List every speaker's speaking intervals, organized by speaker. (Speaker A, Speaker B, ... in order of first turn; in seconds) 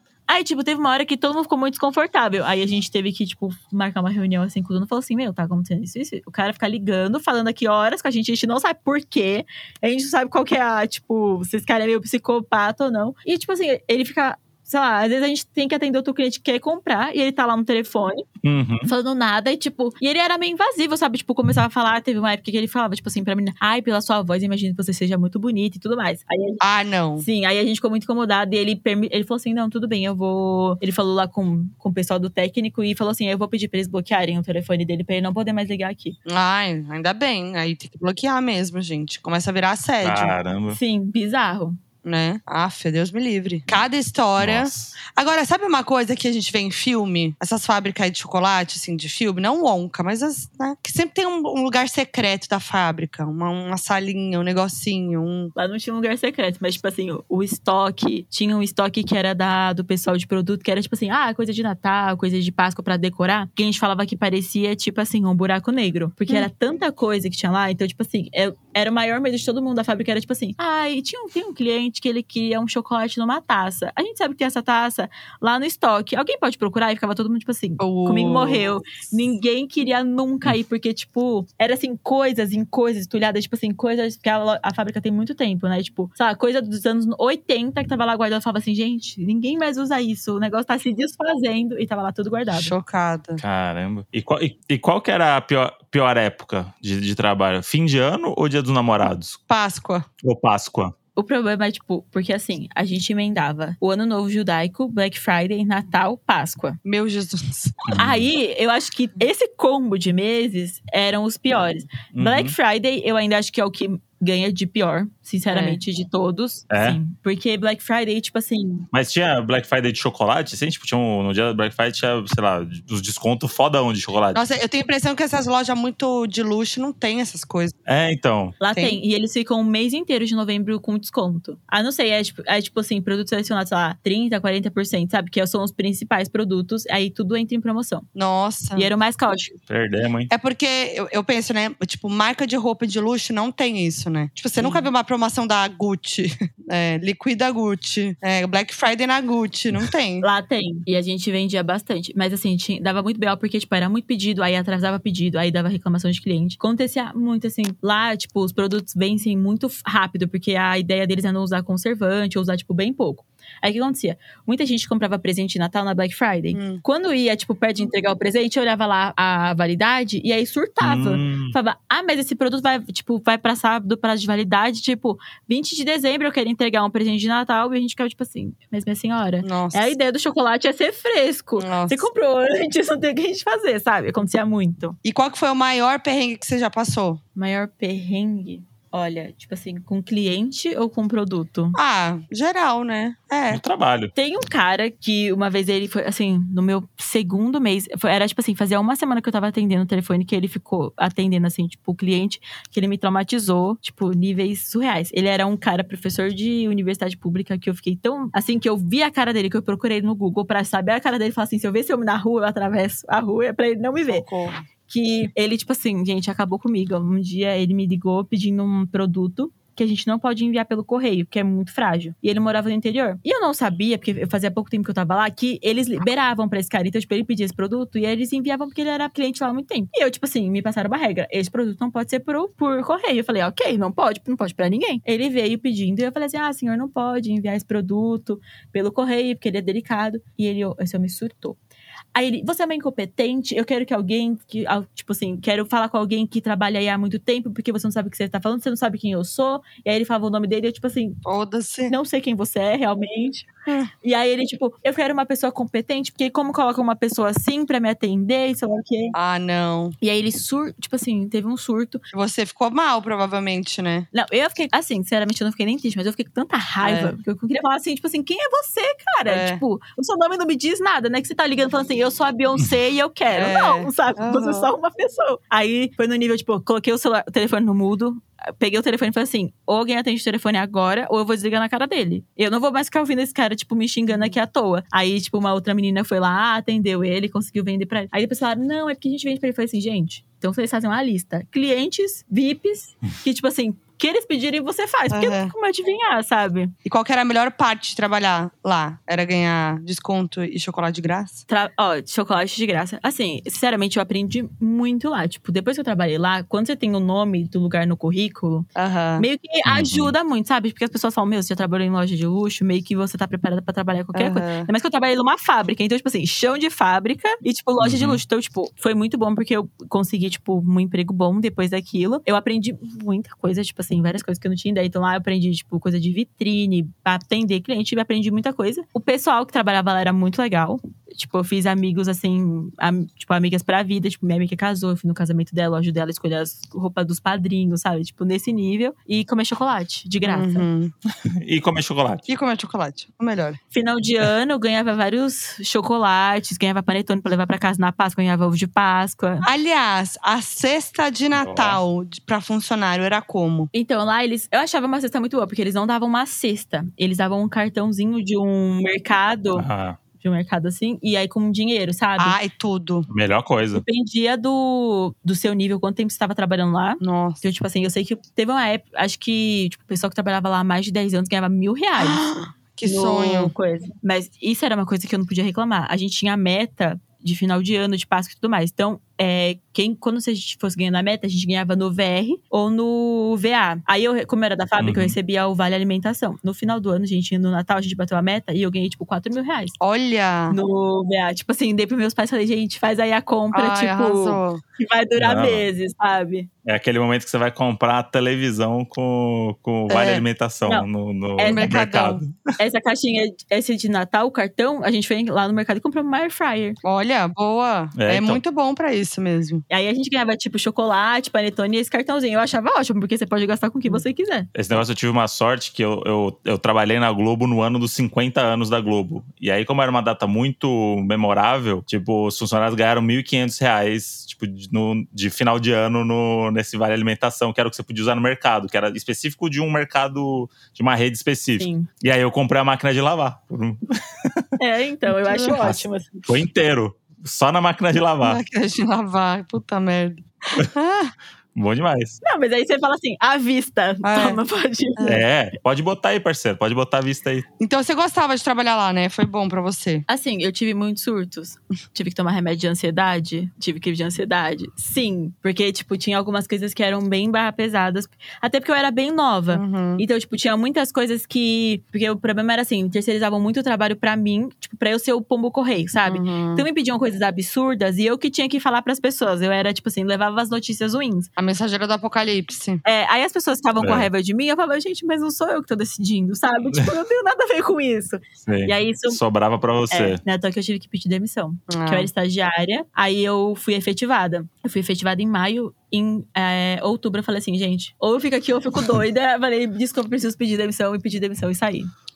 Speaker A: 0.3-18.2, 18.8-26.6, 27.2-36.1, 40.7-41.8, 55.5-92.7, 101.2-106.8, 107.9-118.9, 128.6-138.1, 138.8-139.6, 144.6-144.9, 150.2-185.0, 187.3-191.8, 194.2-214.2, 214.9-241.6, 242.1-251.2, 251.9-253.5, 254.0-259.1, 260.0-262.0, 264.1-296.7, 301.5-340.7, 343.7-349.5, 353.7-359.7, 360.2-362.4, 363.7-372.2, 372.8-389.8, 390.5-396.5, 400.6-401.7, 402.6-406.8, 409.7-414.5, 431.6-431.9, 434.6-436.3, 442.2-445.2, 450.1-471.3, 472.8-479.2, 479.9-491.9
Speaker B: 18.4-18.9, 40.0-40.8, 44.4-44.9, 93.4-99.4, 100.2-100.9, 107.8-108.2, 112.1-112.5, 116.7-117.0, 118.9-124.4, 127.8-128.6, 139.7-140.3, 170.8-171.6, 193.5-194.1, 309.6-310.1, 317.8-318.2, 341.3-342.3, 351.4-351.8, 359.6-360.0, 363.1-363.8, 384.8-385.1, 395.2-395.7, 396.6-402.3, 408.0-408.4, 414.5-434.5, 435.6-438.4, 441.6-442.2, 445.1-447.4, 473.8-474.1, 478.4-480.2
Speaker C: 26.6-27.3, 36.2-40.4, 42.0-55.5, 77.8-78.7, 92.5-93.4, 99.5-100.1, 106.8-107.8, 115.5-115.8, 124.3-127.7, 128.7-129.0, 138.1-138.9, 140.3-150.2, 166.5-166.8, 179.4-179.9, 181.6-182.1, 185.0-187.2, 191.7-193.6, 214.0-214.6, 251.2-251.9, 259.1-259.9, 262.1-264.1, 266.8-267.1, 269.3-269.6, 273.3-274.7, 295.1-295.5, 296.8-301.4, 308.8-309.3, 314.1-314.7, 340.2-340.9, 342.3-343.6, 349.4-353.7, 362.2-363.1, 367.0-367.4, 372.0-373.5, 389.8-390.6, 393.5-394.6, 399.9-400.2, 401.5-402.2, 406.8-409.6, 435.1-435.6, 438.2-441.1, 444.0-444.4, 445.0-445.2, 447.6-450.0, 459.5-460.0, 466.1-466.6, 471.4-472.8, 481.7-482.1